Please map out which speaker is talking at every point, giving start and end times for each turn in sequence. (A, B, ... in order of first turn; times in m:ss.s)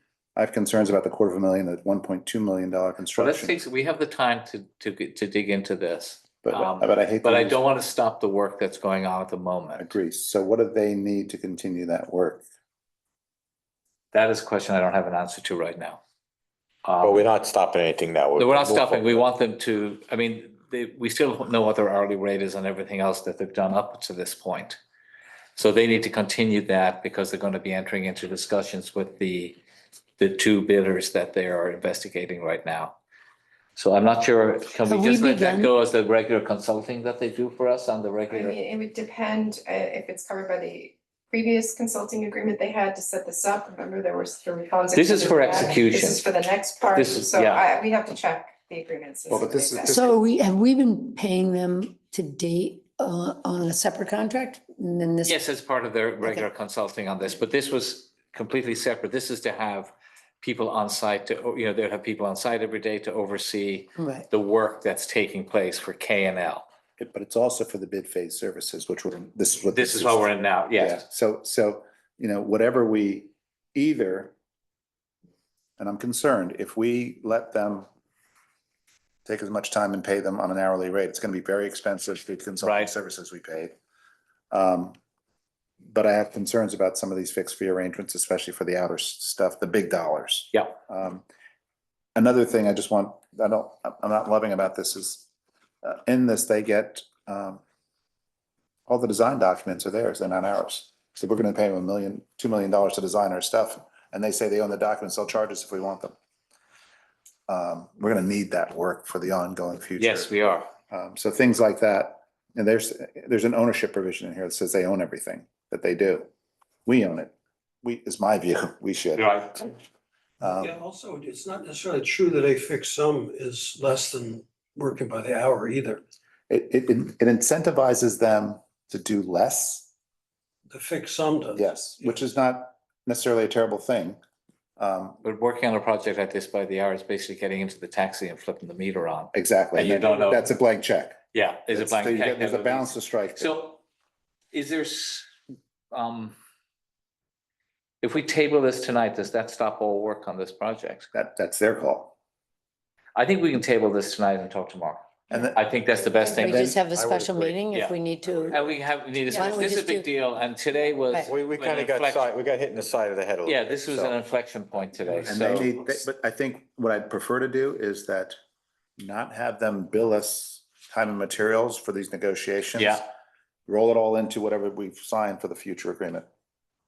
0:00.4-0:03.6 A
0:03.2-0:09.9 B
0:06.4-0:07.6 A
0:09.8-0:12.4 A
0:14.1-0:16.0 B
0:16.8-0:17.2 B
0:17.0-0:19.2 C
0:18.4-0:24.8 B
0:25.6-0:29.6 B
0:30.2-0:33.0 B
0:33.8-0:38.6 B
0:34.9-0:35.7 D
0:38.3-0:50.1 E
0:44.9-0:47.7 B
0:49.3-0:50.1 A
0:49.9-0:55.4 D
0:55.2-1:06.7 B
1:07.0-1:14.3 A
1:09.7-1:11.0 B
1:15.8-1:17.9 A
1:19.2-1:23.7 A
1:22.6-1:22.9 B
1:24.5-1:25.0 A
1:25.9-1:31.2 A
1:32.2-1:35.3 A
1:35.8-1:37.6 A
1:38.9-1:46.2 A
1:47.5-1:50.4 A
1:50.0-1:50.7 B
1:50.9-1:56.3 A
1:56.9-1:59.8 A
1:59.2-1:59.7 B
2:00.4-2:00.8 A
2:00.4-2:06.0 F
2:06.5-2:09.9 A
2:10.7-2:12.2 F
2:11.5-2:14.2 A
2:14.8-2:15.2 A
2:15.2-2:20.5 B
2:19.3-2:23.6 A
2:21.3-2:23.8 B
2:24.5-2:25.3 B
2:25.9-2:26.4 B
2:28.0-2:31.1 B
2:31.1-2:32.1 A
2:33.2-2:36.8 B
2:35.3-2:35.6 A
2:36.4-2:38.6 D
2:36.5-2:37.6 C
2:36.5-2:36.8 A
2:37.7-2:42.3 B
2:38.2-2:38.7 C
2:39.3-2:40.0 D
2:41.2-2:44.2 C
2:43.4-2:45.7 B
2:45.2-2:46.0 C
2:45.3-2:48.4 A
2:49.0-2:53.1 A
2:52.8-2:53.0 B
2:53.7-2:56.3 A